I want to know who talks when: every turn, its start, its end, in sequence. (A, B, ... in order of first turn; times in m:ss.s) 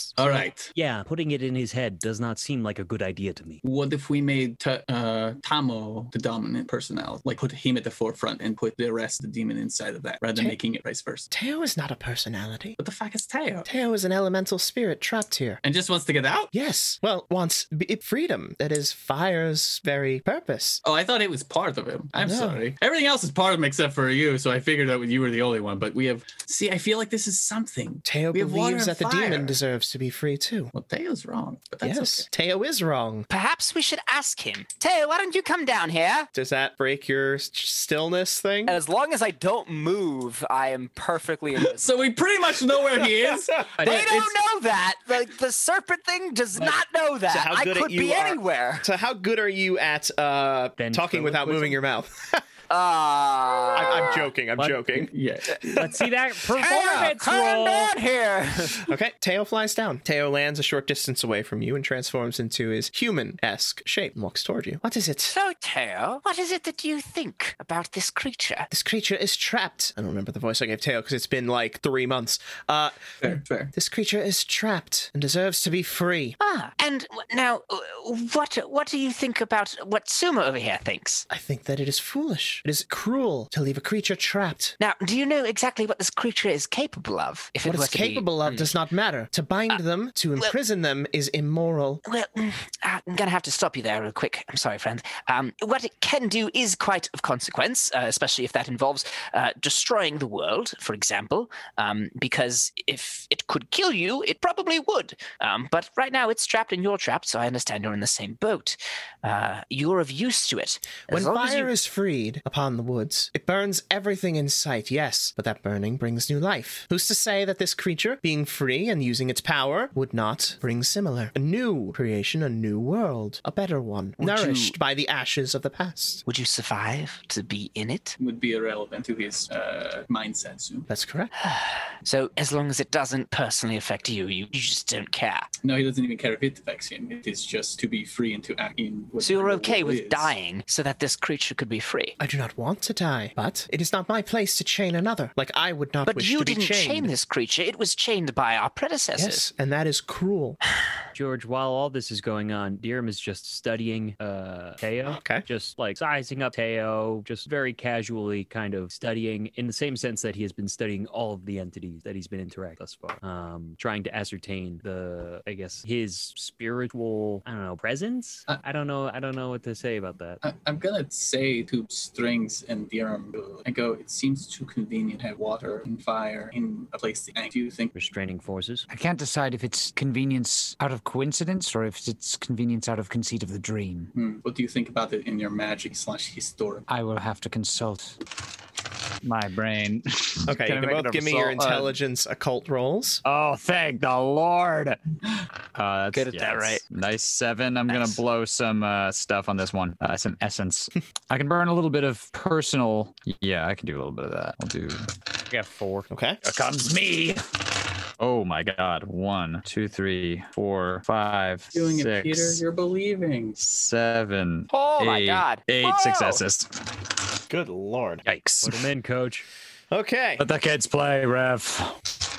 0:00.2-0:00.7 A
0:00.7-0:03.6 B
0:03.6-0:11.3 A
0:11.3-0:12.8 C
0:12.8-0:13.7 A
0:13.6-0:15.6 C
0:15.6-0:16.5 A
0:16.5-0:20.8 C
0:20.8-0:29.6 A
0:22.2-0:22.6 C
0:28.0-0:30.7 C
0:30.7-0:32.3 A
0:31.8-0:33.3 C
0:33.3-0:36.3 D
0:36.3-0:38.8 C
0:38.7-0:41.9 D
0:41.6-0:44.3 A
0:43.8-0:48.9 D
0:47.3-0:52.4 C
0:50.8-0:51.8 B
0:52.7-0:54.3 D
0:53.7-0:55.1 C
0:54.6-0:55.0 B
0:55.0-0:55.9 A
0:55.6-0:57.9 B
0:56.5-0:58.9 D
0:58.8-1:05.4 C
1:05.3-1:08.7 D
1:08.7-1:13.0 C
1:13.2-1:13.7 A
1:13.7-1:16.4 C
1:16.4-1:21.2 D
1:21.3-1:24.8 C
1:24.8-1:28.7 D
1:27.6-1:32.0 C
1:32.0-1:51.7 D
1:51.1-2:06.2 C
2:04.2-2:04.8 D
2:06.2-2:08.2 D
2:08.2-2:10.9 A
2:10.9-2:11.3 C
2:11.4-2:15.5 D
2:15.6-2:20.3 A
2:19.2-2:22.2 D
2:22.2-2:27.1 C
2:26.1-2:29.4 D
2:29.2-2:30.6 C
2:31.1-2:50.4 B
2:35.1-2:35.4 C
2:50.4-2:57.9 A
2:57.9-2:58.8 B
2:58.9-3:04.1 E
3:04.1-3:06.8 A
3:06.9-3:08.2 E
3:09.2-3:11.9 E
3:10.5-3:13.2 C
3:13.2-3:15.0 E
3:15.7-3:27.4 E
3:16.1-3:16.8 D
3:17.9-3:18.2 D
3:26.1-3:26.4 C
3:28.2-3:32.6 E
3:31.7-3:33.6 A
3:33.6-3:36.7 E
3:34.7-3:36.4 D
3:37.5-3:38.2 C
3:38.2-3:38.8 E
3:38.6-3:39.5 B
3:39.9-3:40.4 C
3:40.4-3:42.0 E